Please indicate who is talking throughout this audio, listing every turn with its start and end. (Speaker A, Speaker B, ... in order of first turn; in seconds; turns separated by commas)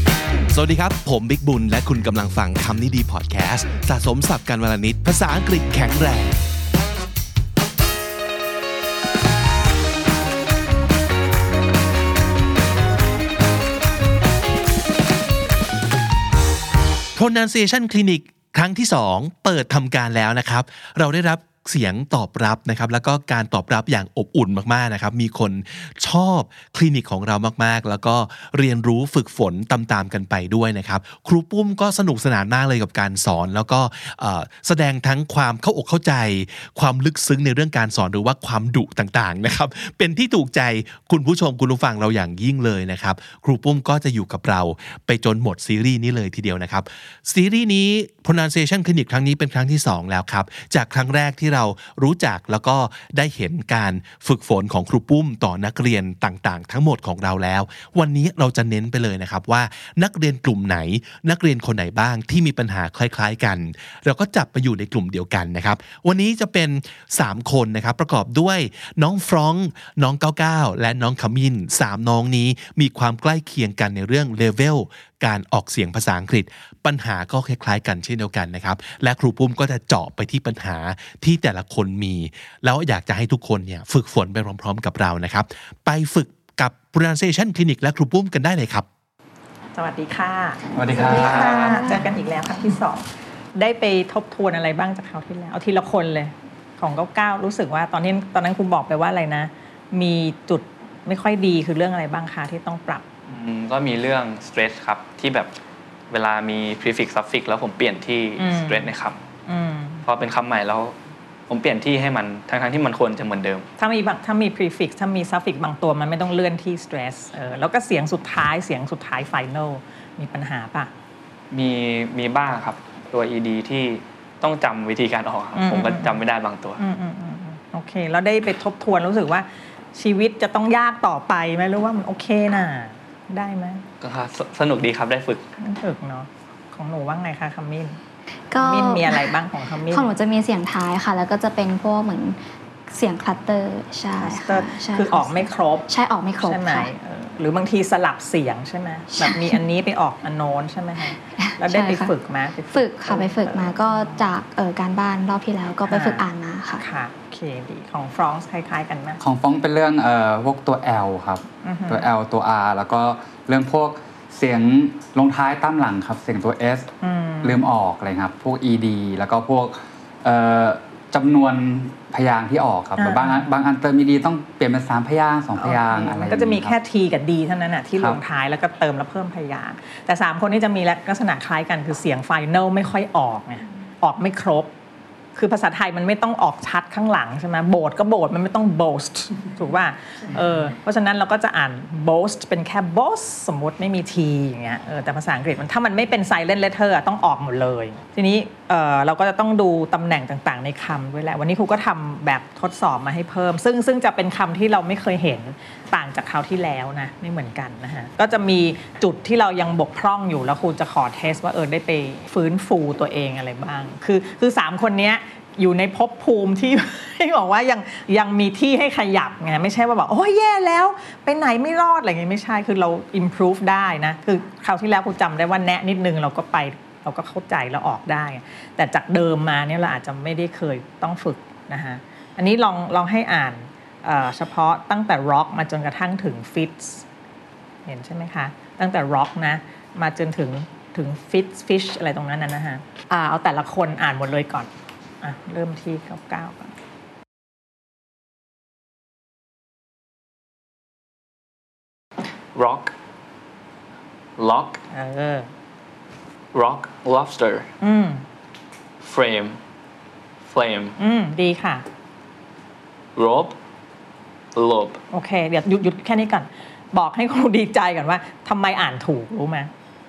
Speaker A: 0.5-6.4, Speaker A: 17.1-88.8, Speaker B: 89.7-103.0, Speaker C: 90.7-91.9, Speaker D: 91.2-92.0, Speaker E: 103.3-105.5, Speaker E: 106.1-109.2, Speaker B: 108.4-108.9, Speaker B: 109.5-110.0, Speaker E: 110.0-110.9, Speaker E: 111.5-113.7, Speaker B: 113.8-120.9, Speaker E: 121.5-126.8, Speaker B: 125.6-126.2, Speaker B: 126.8-133.8, Speaker E: 134.0-135.4, Speaker B: 135.6-138.0, Speaker D: 138.5-142.4, Speaker B: 138.6-140.1, Speaker D: 142.9-146.9, Speaker B: 144.2-145.9, Speaker B: 146.4-154.3, Speaker D: 149.1-149.6, Speaker D: 151.3-152.1, Speaker D: 152.7-156.8, Speaker B: 155.9-156.2, Speaker B: 156.8-159.2, Speaker C: 159.2-166.9, Speaker B: 161.6-162.1, Speaker B: 167.0-167.7, Speaker C: 167.4-176.8, Speaker B: 173.0-173.4, Speaker B: 175.6-184.7, Speaker B: 185.3-237.1, Speaker B: 237.8-244.7, Speaker B: 245.2-246.7, Speaker E: 252.5-252.9, Speaker E: 254.4-254.8, Speaker B: 254.9-255.5, Speaker E: 256.5-257.7, Speaker B: 257.8-258.2, Speaker E: 259.0-259.6, Speaker E: 260.4-261.0, Speaker B: 261.0-261.8, Speaker E: 263.1-263.6, Speaker E: 264.5-265.0, Speaker B: 265.1-269.7